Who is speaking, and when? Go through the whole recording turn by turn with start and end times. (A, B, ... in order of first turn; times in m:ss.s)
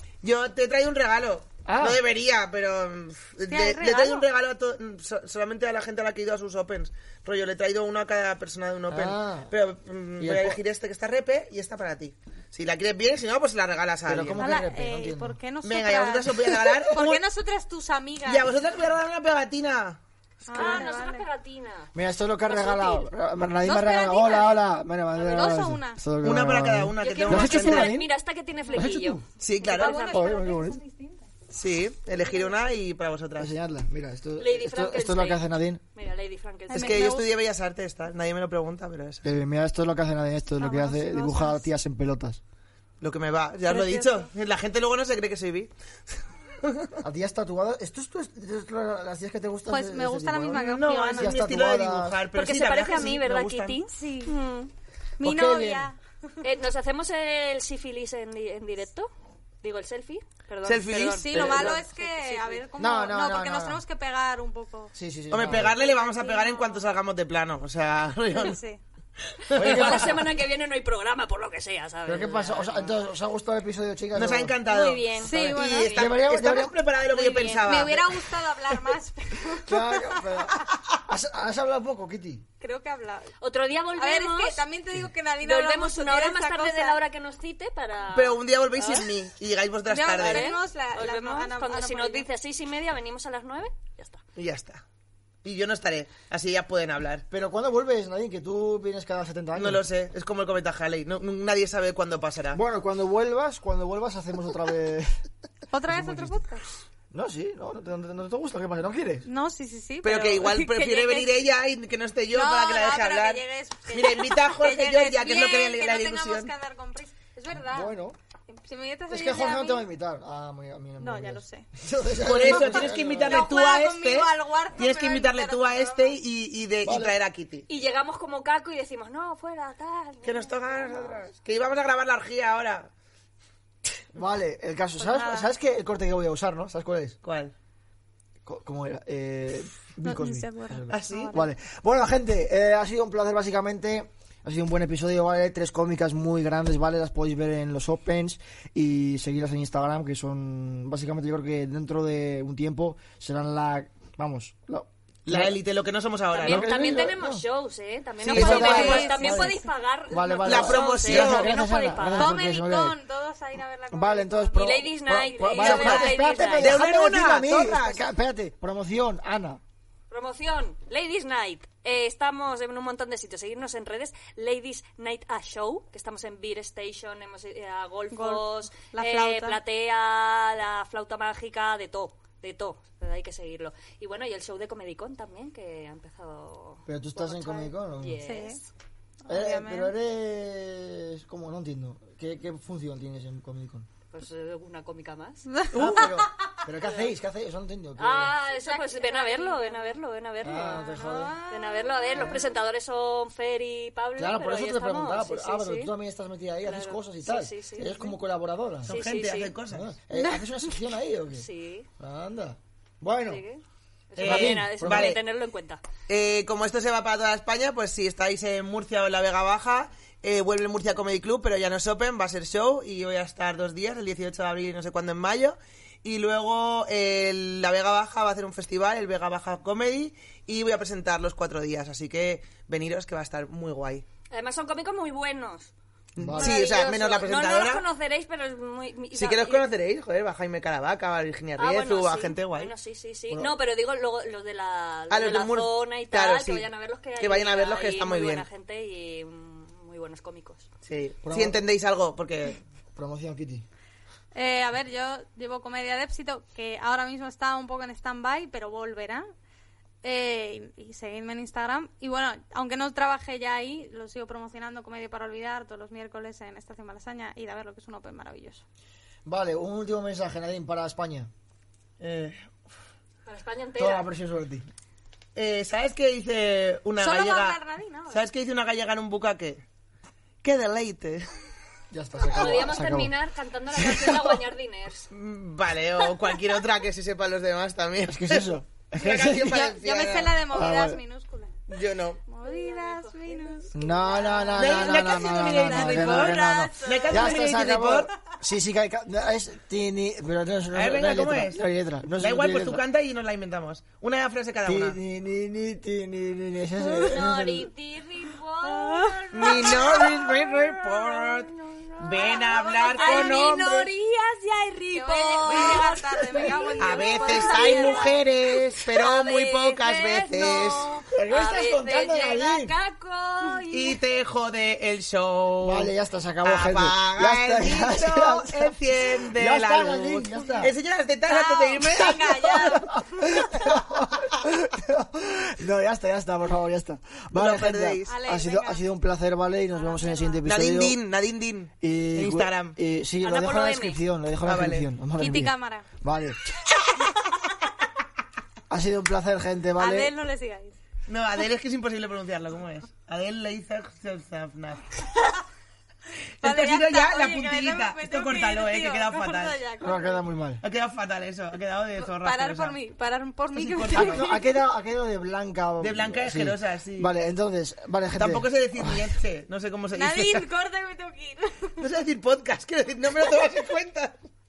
0:00.2-0:14.6 A
0:01.6-0:02.0 B
0:03.5-0:04.3 C
0:08.9-0:09.5 B
0:10.2-0:10.6 B
0:14.1-0:15.4 B
0:14.4-0:18.5 C
0:15.6-0:17.2 A
0:18.2-0:20.0 A
0:20.5-0:21.2 C
0:20.5-0:21.9 D
0:20.6-0:20.9 A
0:21.9-0:28.1 B
0:22.4-0:23.1 D
0:23.6-0:24.6 C
0:25.2-0:26.0 C
0:26.2-0:27.9 A
0:27.0-0:30.4 D
0:28.8-0:29.2 B
0:29.4-0:30.1 A
0:29.6-0:31.3 C
0:30.1-0:30.8 B
0:31.5-0:33.5 A
0:33.4-0:35.8 B
0:34.4-0:37.0 D
0:36.7-0:37.3 C
0:36.7-0:39.3 A
0:39.2-0:42.4 B
0:40.6-0:41.6 C
0:43.0-0:45.7 A
0:43.7-0:44.3 C
0:46.6-0:47.0 A
0:47.0-0:52.2 B
0:49.7-0:51.5 C
0:50.5-0:53.8 A
0:52.3-0:54.7 D
0:53.9-0:54.4 C
0:55.2-0:56.4 C
0:55.2-0:55.9 B
0:56.4-0:59.1 D
0:59.6-1:02.6 D
1:00.6-1:01.8 A
1:01.2-1:04.9 C
1:02.8-1:03.8 B
1:05.0-1:05.7 B
1:05.3-1:08.6 A
1:05.5-1:06.9 C
1:08.3-1:08.8 C
1:09.4-1:10.2 A
1:09.5-1:12.9 D
1:09.6-1:10.3 B
1:12.1-1:14.6 B
1:14.2-1:18.2 A
1:14.6-1:16.1 D
1:15.2-1:16.0 C
1:15.9-1:16.8 B
1:17.1-1:20.8 C
1:19.6-1:22.4 B
1:22.6-1:23.3 C
1:23.4-1:24.6 D
1:24.0-1:27.0 C
1:25.4-1:29.1 D
1:28.1-1:30.6 A
1:29.9-1:32.3 C
1:30.1-1:34.2 D
1:34.4-1:34.8 A
1:35.4-1:37.2 A
1:37.3-1:39.8 B
1:39.6-1:42.6 A
1:42.5-1:45.2 B
1:45.7-1:46.6 C
1:45.9-1:46.4 B
1:47.1-1:49.3 B
1:49.2-1:51.4 C
1:50.0-1:56.5 A
1:52.3-1:57.9 C
1:57.5-1:58.2 B
1:58.6-1:59.9 C
1:59.1-2:03.5 B
2:01.0-2:01.6 C
2:02.2-2:07.6 A
2:02.4-2:06.2 C
2:06.8-2:07.1 B
2:07.7-2:11.3 D
2:10.2-2:12.9 A
2:14.1-2:17.2 B
2:15.0-2:15.5 C
2:17.2-2:17.5 A
2:18.4-2:35.6 B
2:20.0-2:21.4 C
2:20.9-2:21.3 A
2:35.3-2:37.1 A
2:36.3-2:42.4 D
2:36.4-2:37.4 B
2:38.2-2:39.2 A
2:38.2-2:43.0 B
2:38.3-2:39.6 C
2:40.4-2:41.5 A
2:42.1-2:46.6 C
2:43.9-2:49.6 B
2:44.6-2:46.8 D
2:45.6-2:48.0 A
2:50.1-3:08.7 D
2:58.1-2:59.6 C
3:06.9-3:08.2 B
3:08.2-3:08.6 C
3:09.3-3:09.9 C
3:09.3-3:13.9 B
3:14.1-3:15.6 D
3:15.6-3:16.5 C
3:15.7-3:18.3 B
3:15.8-3:16.1 A
3:16.8-3:17.1 D
3:18.0-3:25.9 D
3:18.5-3:20.0 C
3:20.4-3:21.4 B
3:20.5-3:22.4 C
3:22.2-3:22.4 B
3:24.2-3:28.9 B
3:26.6-3:28.2 D
3:28.8-3:29.9 A
3:28.9-3:29.6 D
3:29.7-3:31.5 B
3:30.1-3:30.4 C
3:31.3-3:31.9 D
3:32.0-3:33.4 B
3:33.2-3:35.8 D
3:34.2-3:35.2 A
3:34.2-3:35.2 B
3:36.1-3:54.0 A
3:54.3-3:55.7 D
3:56.2-3:56.7 B
3:56.2-3:57.8 A
3:56.4-3:59.7 D
3:59.2-4:02.7 A
4:01.6-4:10.7 D
4:05.1-4:06.7 A
4:07.2-4:08.5 A
4:10.9-4:12.6 A
4:11.2-4:11.6 B
4:13.0-4:13.7 B
4:14.3-4:19.2 C
4:20.0-4:28.6 C
4:29.2-4:31.3 B
4:32.0-4:32.4 A
4:33.3-4:34.1 D
4:33.8-4:34.7 B
4:35.4-4:37.6 A
4:37.0-4:38.2 C
4:38.1-4:39.6 A
4:40.4-4:41.3 A
4:41.9-4:43.2 B
4:42.2-4:45.1 D
4:43.7-4:44.4 B
4:45.1-4:48.5 A
4:48.0-4:49.7 B
4:49.0-4:50.4 A
4:49.4-4:51.5 C
4:50.5-4:51.0 B
4:51.7-4:52.2 A
4:52.3-4:57.5 C
4:52.4-4:54.3 D
4:53.7-5:02.8 B
4:54.6-4:58.1 A
4:56.8-4:57.1 D
5:00.7-5:01.6 A
5:02.2-5:05.0 A
5:04.6-5:07.7 B
5:06.8-5:18.2 D
5:08.7-5:10.0 C
5:09.3-5:13.9 A
5:13.0-5:13.4 C
5:14.9-5:18.2 C
5:15.5-5:15.8 A
5:15.8-5:16.7 B
5:16.8-5:21.0 A
5:18.8-5:24.0 D
5:21.1-5:22.7 B
5:23.7-5:25.9 A
5:25.6-5:30.7 B
5:26.4-5:32.3 A
5:31.3-5:33.3 C
5:32.1-5:41.0 B
5:37.4-5:38.1 A
5:38.1-5:38.8 C
5:39.7-5:40.5 C
5:40.4-5:42.8 A
5:41.8-5:46.5 B
5:43.2-5:44.0 D
5:44.4-5:44.9 A
5:45.2-5:45.9 C
5:48.7-5:50.1 B
5:49.8-5:50.8 C
5:51.1-5:55.1 A
5:56.4-5:59.6 A
5:56.4-6:00.2 C
5:59.8-6:00.6 B
6:00.6-6:02.8 A
6:02.0-6:04.4 C
6:03.5-6:04.3 A
6:03.9-6:09.1 B
6:05.8-6:07.1 A
6:08.2-6:10.4 A
6:09.9-6:11.8 C
6:11.8-6:14.2 A